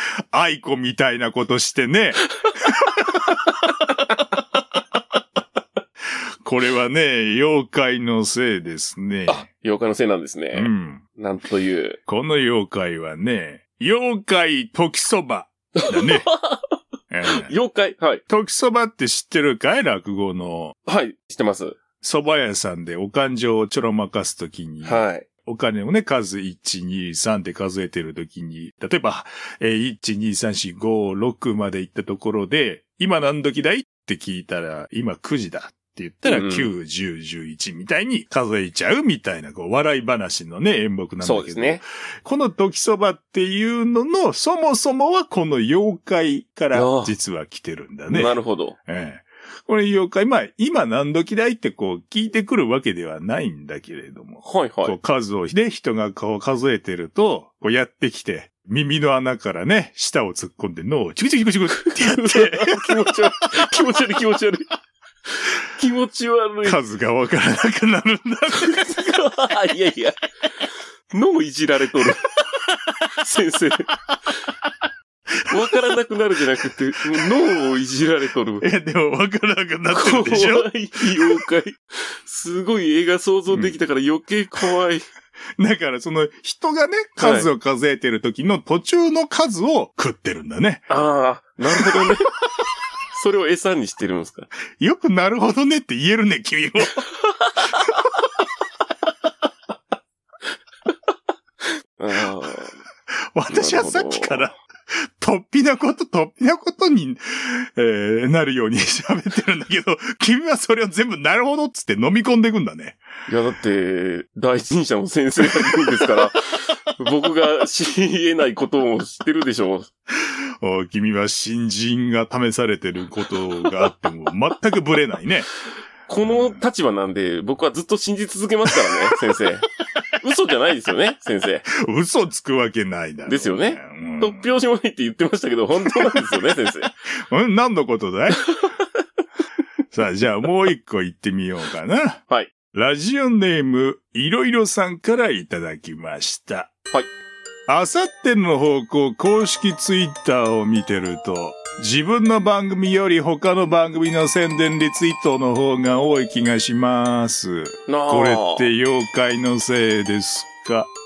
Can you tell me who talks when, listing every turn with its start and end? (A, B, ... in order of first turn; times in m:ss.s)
0:00.3-0:03.6 A
0:06.2-0:09.4 A
0:09.3-0:12.0 B
0:10.5-0:11.0 A
0:12.1-0:16.3 A
0:15.8-0:16.6 B
0:17.1-0:17.5 A
0:17.2-0:18.2 B
0:18.3-0:20.8 A
0:20.8-0:21.8 B
0:22.0-1:03.7 A
0:24.8-0:25.2 B
0:36.2-0:36.7 B
0:41.2-0:41.8 B
0:46.7-0:47.1 B
0:48.1-0:48.8 B
0:54.4-0:55.0 B
1:01.8-1:04.7 B
1:05.4-1:06.8 B
1:06.6-1:09.3 A
1:08.6-1:10.1 B
1:11.1-1:12.3 B
1:13.0-1:13.9 B
1:15.5-1:18.6 B
1:18.6-1:21.4 A
1:19.9-1:25.0 B
1:23.5-1:23.8 A
1:25.6-1:30.9 A
1:27.2-1:27.5 B
1:30.9-1:32.3 B
1:31.8-1:32.1 A
1:33.1-1:34.5 B
1:34.8-1:37.0 A
1:42.0-1:42.8 B
1:43.1-1:53.0 A
1:43.5-1:44.5 B
1:53.3-1:56.4 B
1:55.5-1:56.1 A
1:57.0-1:59.9 B
2:00.1-2:05.5 A
2:06.1-2:09.7 B
2:06.2-2:06.6 A
2:10.2-2:11.6 B
2:11.7-2:14.5 A
2:13.3-2:16.9 B
2:15.8-2:16.2 A
2:17.3-2:18.5 A
2:19.9-2:22.2 A
2:22.7-2:26.7 A
2:27.7-2:40.9 A
2:37.9-2:38.7 B